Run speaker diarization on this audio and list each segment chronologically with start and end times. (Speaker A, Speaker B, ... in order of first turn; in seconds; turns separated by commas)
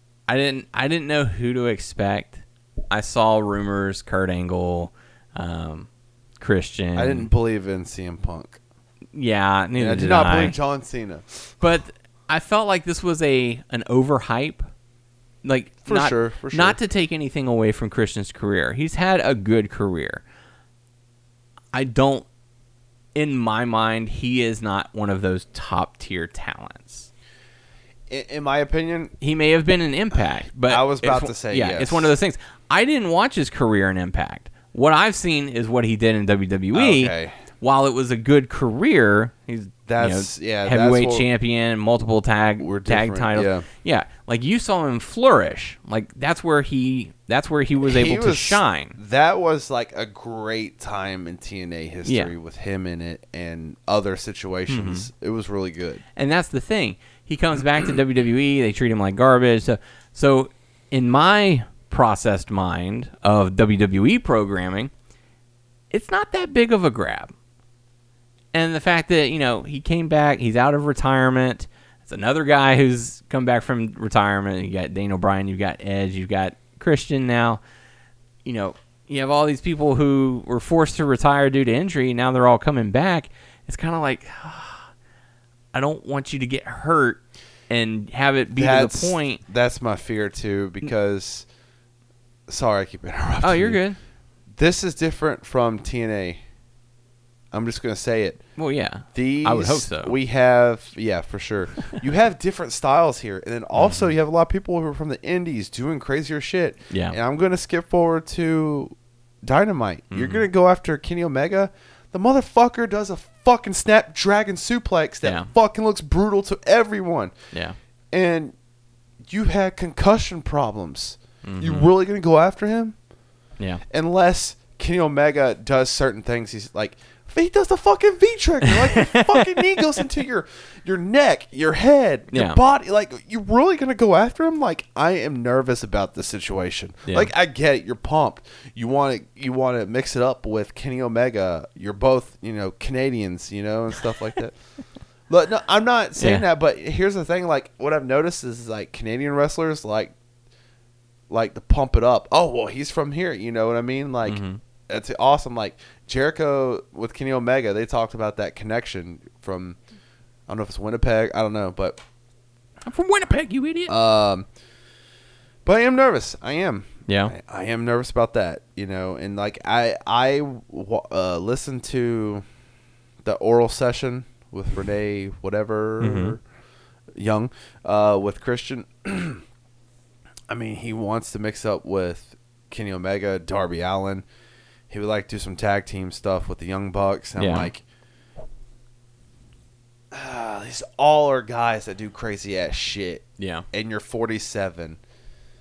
Speaker A: 0.3-5.9, Speaker A: 6.4-7.3, Speaker B: 6.9-8.6, Speaker A: 9.1-10.6, Speaker B: 9.8-11.4, Speaker A: 11.6-14.7, Speaker A: 15.4-20.2, Speaker B: 15.9-16.8, Speaker A: 21.7-22.2, Speaker A: 23.1-27.1, Speaker B: 28.1-29.1, Speaker A: 29.2-49.0, Speaker B: 30.6-32.1, Speaker B: 36.7-37.4, Speaker B: 39.9-41.3, Speaker B: 42.6-43.7, Speaker B: 47.8-56.0, Speaker A: 52.0-52.3, Speaker A: 54.7-55.1, Speaker A: 56.1-64.9, Speaker A: 65.9-67.3, Speaker A: 68.5-77.6, Speaker A: 78.4-84.9, Speaker A: 85.7-89.4, Speaker B: 88.6-91.5, Speaker B: 92.5-93.8, Speaker A: 93.4-94.0, Speaker B: 94.5-96.4, Speaker B: 97.5-98.4, Speaker A: 98.6-100.1, Speaker B: 99.1-117.3, Speaker A: 103.8-104.1, Speaker A: 106.9-107.2, Speaker A: 110.1-110.4, Speaker A: 115.2-115.5, Speaker B: 118.1-118.5, Speaker B: 119.3-123.0, Speaker A: 121.4-121.9, Speaker B: 123.9-144.6, Speaker A: 128.7-129.9, Speaker A: 132.3-132.6, Speaker B: 145.3-150.1, Speaker A: 146.2-146.4, Speaker B: 151.3-159.8, Speaker A: 154.2-154.6, Speaker B: 160.5-162.0, Speaker A: 162.9-163.9, Speaker B: 163.9-164.5, Speaker B: 165.6-172.4, Speaker A: 167.1-167.3, Speaker B: 173.2-176.4, Speaker A: 176.0-176.4, Speaker B: 177.2-179.4, Speaker B: 180.5-184.2, Speaker B: 184.9-187.8, Speaker A: 187.4-187.7, Speaker B: 190.1-195.0, Speaker A: 193.4-193.6